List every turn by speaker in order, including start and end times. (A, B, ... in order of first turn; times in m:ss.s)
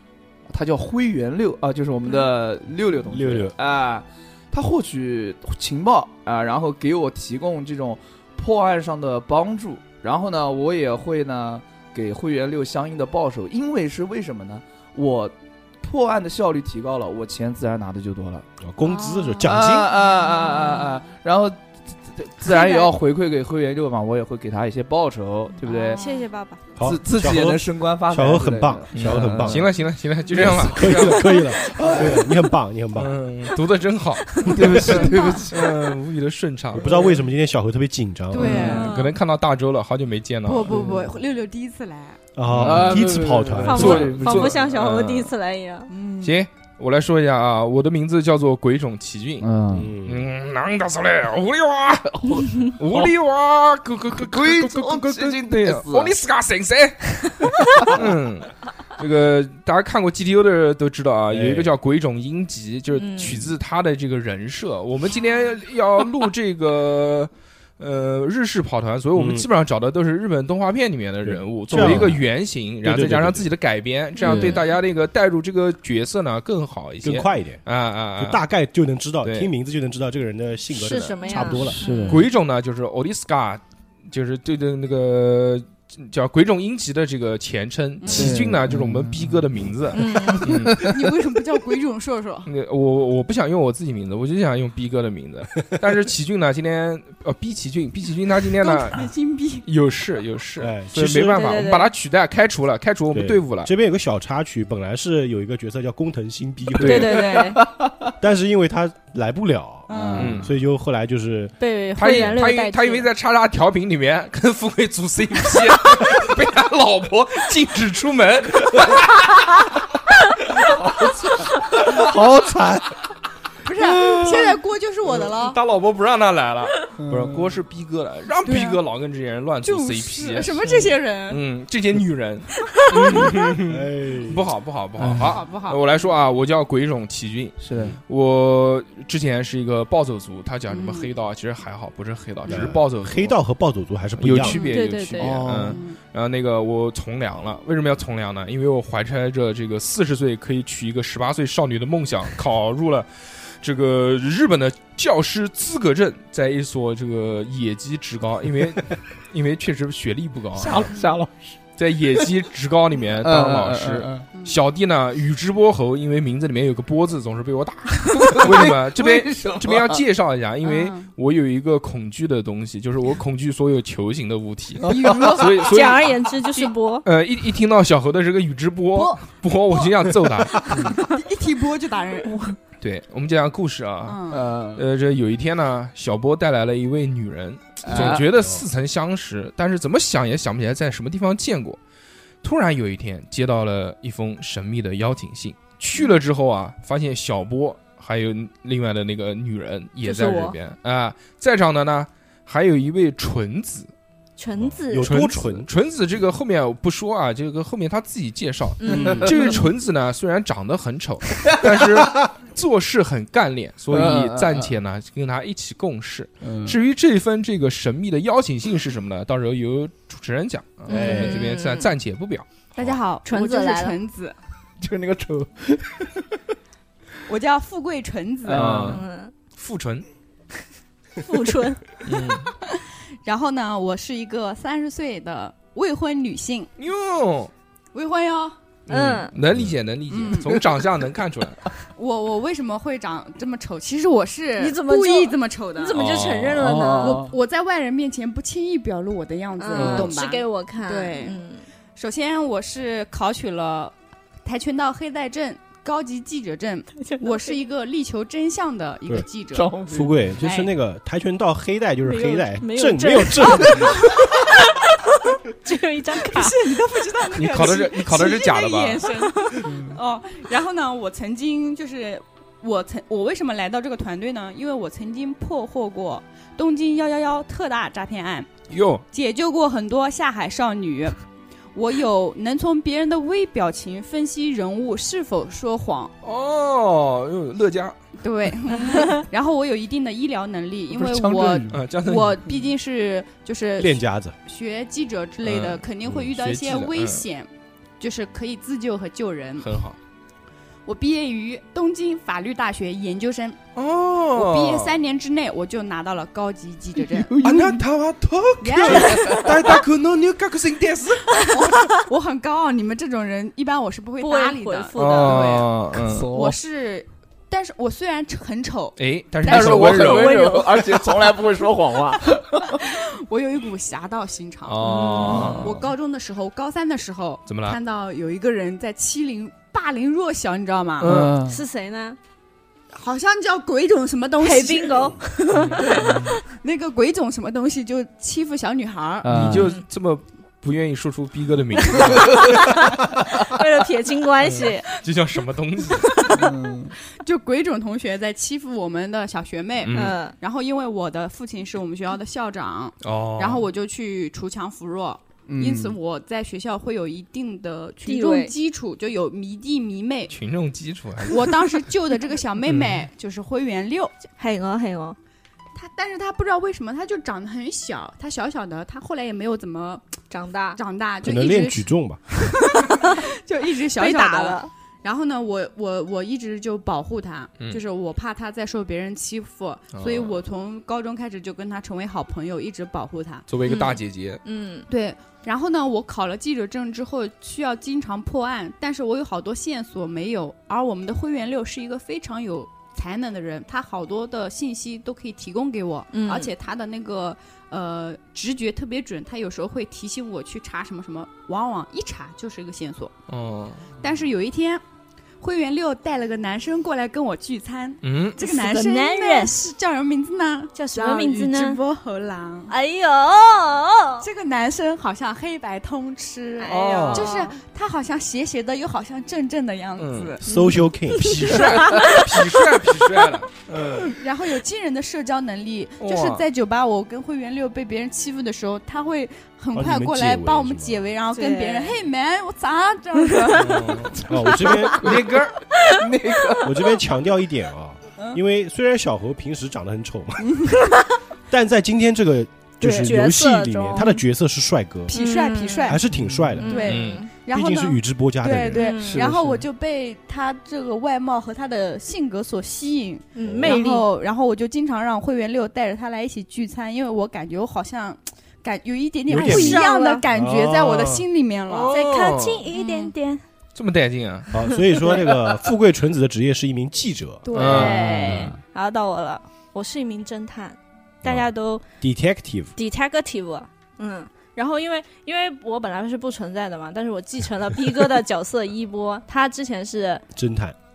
0:00.5-0:18.5 A
0:03.1-0:03.5 B
0:18.6-0:19.9 B
0:18.8-0:19.4 C
0:19.4-0:26.0 A
0:20.1-0:20.9 D
0:22.5-0:22.9 C
0:25.6-0:26.6 C
0:25.9-0:26.2 D
0:26.8-0:29.7 B
0:26.8-0:29.7 A
0:28.9-0:31.4 E
0:30.3-0:33.2 B
0:31.2-0:32.0 C
0:31.8-0:32.2 A
0:32.9-0:36.9 E
0:34.2-0:35.4 C
0:34.5-0:35.7 A
0:34.6-0:35.0 B
0:36.7-0:38.7 B
0:36.8-0:37.2 A
0:38.3-0:38.9 D
0:38.4-0:38.9 A
0:38.4-0:40.9 E
0:38.5-0:39.1 C
0:40.4-0:42.2 D
0:40.7-0:41.1 A
0:42.3-0:44.1 B
0:42.5-0:45.3 E
0:42.6-0:44.6 A
0:43.6-0:45.9 C
0:45.9-0:46.4 D
0:46.2-1:18.4 E
0:49.4-0:49.9 A
0:49.7-0:50.3 B
0:52.1-0:53.1 A
0:54.2-0:56.1 A
1:01.3-1:01.7 B
1:02.9-1:03.5 C
1:09.1-1:09.5 B
1:11.2-1:12.2 B
1:11.7-1:12.2 A
1:12.8-1:13.5 B
1:14.2-1:14.7 C
1:14.2-1:14.6 A
1:17.0-1:17.6 B
1:18.2-1:21.8 B
1:19.2-1:19.5 E
1:20.7-1:22.3 C
1:21.5-1:22.3 A
1:22.1-1:30.9 E
1:28.0-1:28.4 D
1:28.1-1:29.4 A
1:29.9-1:30.5 C
1:30.0-1:31.1 A
1:30.7-1:32.5 D
1:32.4-1:39.0 E
1:38.6-1:39.6 D
1:39.6-1:43.7 E
1:40.6-1:41.5 B
1:41.3-1:41.9 C
1:43.1-1:47.3 B
1:46.8-1:48.0 A
1:46.8-1:47.6 C
1:48.2-1:52.4 B
1:49.9-1:50.3 D
1:49.9-1:50.5 A
1:50.2-1:50.5 E
1:51.6-1:53.1 C
1:52.0-1:59.3 E
2:00.7-2:02.1 A
2:01.8-2:03.0 B
2:03.6-2:05.6 D
2:03.8-2:10.6 E
2:07.0-2:07.5 A
2:08.4-2:08.8 D
2:09.6-2:11.4 D
2:10.6-2:10.9 A
2:11.3-2:23.3 E
2:13.6-2:14.5 B
2:15.0-2:15.3 A
2:15.2-2:15.8 D
2:17.6-2:18.0 A
2:20.7-2:21.1 D
2:22.5-2:24.6 B
2:24.2-2:40.9 E
2:24.4-2:25.4 C
2:25.2-2:25.8 A
2:25.6-2:26.0 D
2:40.6-2:41.6 A
2:41.8-2:56.2 E
2:43.2-2:44.3 A
2:44.3-2:44.6 D
2:48.1-2:50.0 A
2:50.6-2:51.1 D
2:54.8-2:56.1 A
2:54.9-2:55.9 D
2:55.7-2:57.0 C
2:57.0-3:01.0 E
2:58.9-3:02.4 D
3:02.2-3:02.5 C
3:02.8-3:11.8 E
3:04.0-3:04.4 D
3:04.3-3:04.8 A
3:07.8-3:08.2 A
3:08.0-3:08.6 B
3:12.4-3:23.9 E
3:20.0-3:20.6 C
3:24.4-3:25.5 C
3:24.6-3:25.7 B
3:25.0-3:42.5 E
3:28.8-3:29.6 C
3:28.9-3:29.6 A
3:31.6-3:32.1 A
3:33.9-3:34.7 A
3:36.4-3:36.8 A
3:40.9-3:41.3 A
3:40.9-3:41.9 C
3:42.7-3:44.4 D
3:43.2-3:44.0 C
3:44.8-3:46.3 A
3:47.3-3:48.8 D
3:48.4-3:49.0 A
3:48.5-3:50.0 E
3:48.8-3:49.3 C
3:51.2-3:51.8 C
3:52.0-3:52.5 E
3:52.6-3:56.7 D
3:56.8-3:57.5 E
3:57.9-3:58.6 D
3:58.9-4:01.7 E
3:58.9-3:59.3 C
4:00.1-4:00.6 D
4:02.0-4:05.9 D
4:04.6-4:07.2 C
4:05.9-4:06.7 E
4:06.6-4:07.4 A
4:07.0-4:11.4 D
4:09.6-4:11.6 C
4:09.7-4:10.1 A
4:12.0-4:19.7 D
4:17.0-4:17.6 C
4:19.5-4:20.3 A
4:19.8-4:24.0 B
4:20.4-4:20.7 D
4:22.0-4:26.7 C
4:24.0-4:24.3 D
4:26.2-4:38.5 D
4:27.3-4:29.1 E
4:29.2-4:29.6 C
4:29.6-4:30.0 A
4:38.7-4:39.0 E
4:39.1-4:41.2 D
4:41.7-4:46.1 D
4:46.2-4:47.9 E
4:48.2-4:59.8 D
4:50.9-4:51.8 A
4:51.7-4:52.4 E
4:53.8-4:54.4 B
4:55.4-4:57.2 E
4:59.6-5:00.0 E
5:00.8-5:03.6 D
5:03.7-5:05.0 E
5:04.3-5:07.3 D
5:07.0-5:07.8 A
5:07.4-5:07.9 E
5:07.4-5:09.8 B
5:08.5-5:11.7 E
5:08.6-5:09.6 D
5:09.1-5:09.5 A
5:11.5-5:20.3 D
5:14.2-5:15.5 C
5:15.0-5:16.3 E
5:16.0-5:16.6 A
5:19.0-5:21.0 E
5:19.4-5:22.8 A
5:22.7-5:31.1 D
5:24.6-5:25.8 E
5:24.8-5:25.6 C
5:25.2-5:25.8 A
5:27.5-5:27.8 E
5:31.0-5:31.4 E
5:31.0-5:31.6 A
5:31.4-5:32.2 C
5:32.9-5:35.2 D
5:34.4-5:36.3 C
5:35.5-5:35.8 E
5:35.7-5:39.5 D
5:36.0-5:36.3 A
5:39.2-5:39.7 A
5:39.3-5:42.7 E
5:39.5-5:39.8 C
5:42.3-5:44.9 C
5:44.4-5:46.2 E
5:46.1-5:46.5 D
5:46.3-5:46.9 A
5:47.0-6:00.4 D
5:49.8-5:50.2 E
5:49.9-5:50.4 C
5:53.0-5:53.6 E
5:55.5-5:56.0 A
5:58.0-5:58.5 C
6:00.3-6:01.9 E
6:01.2-6:04.1 D
6:02.7-6:03.1 E
6:04.4-6:05.2 C
6:05.7-6:10.1 D
6:10.3-6:10.8 C
6:10.8-6:23.4 D
6:11.2-6:12.2 B
6:12.8-6:13.2 C
6:14.0-6:14.7 C
6:19.9-6:20.4 E
6:23.5-6:24.4 E
6:23.6-6:24.9 C
6:24.9-6:43.1 D
6:36.1-6:36.5 C
6:43.3-6:43.9 E
6:44.0-6:44.8 D
6:45.4-6:52.7 D
6:48.0-6:48.4 E
6:48.4-6:49.6 C
6:50.7-6:51.8 C
6:52.7-6:54.3 C
6:54.2-7:00.4 D
6:56.6-6:57.6 C
6:56.7-6:57.3 E
7:00.0-7:00.4 E
7:00.4-7:01.6 B
7:00.5-7:02.7 C
7:01.2-7:04.1 E
7:04.1-7:14.2 D
7:06.0-7:06.4 E
7:09.7-7:11.0 B
7:11.3-7:12.0 C
7:13.5-7:14.2 E
7:14.1-7:16.8 A
7:14.3-7:15.0 B
7:15.0-7:15.6 E
7:16.6-7:20.6 B
7:20.4-7:20.8 D
7:21.5-7:25.2 B
7:22.8-7:24.2 C
7:25.1-7:26.0 D
7:25.1-7:26.0 C
7:25.8-7:26.9 B
7:26.1-7:26.6 A
7:26.6-7:27.3 C
7:26.6-7:42.0 D
7:26.8-7:27.2 E
7:27.5-7:28.9 B
7:28.7-7:29.3 C
7:29.0-7:29.6 A
7:33.3-7:34.0 C
7:33.4-7:33.8 B
7:39.3-7:41.2 B
7:39.3-7:40.2 C
7:41.7-7:42.7 E
7:41.9-7:43.4 C
7:42.7-7:43.1 D
7:43.7-7:44.5 E
7:44.5-7:47.5 B
7:47.4-7:48.5 D
7:47.5-7:48.3 E
7:47.6-7:51.8 C
7:47.6-7:48.6 A
7:48.2-7:48.5 B
7:51.2-7:51.5 B
7:52.0-7:52.7 B
7:52.8-8:00.2 C
8:00.3-8:00.8 B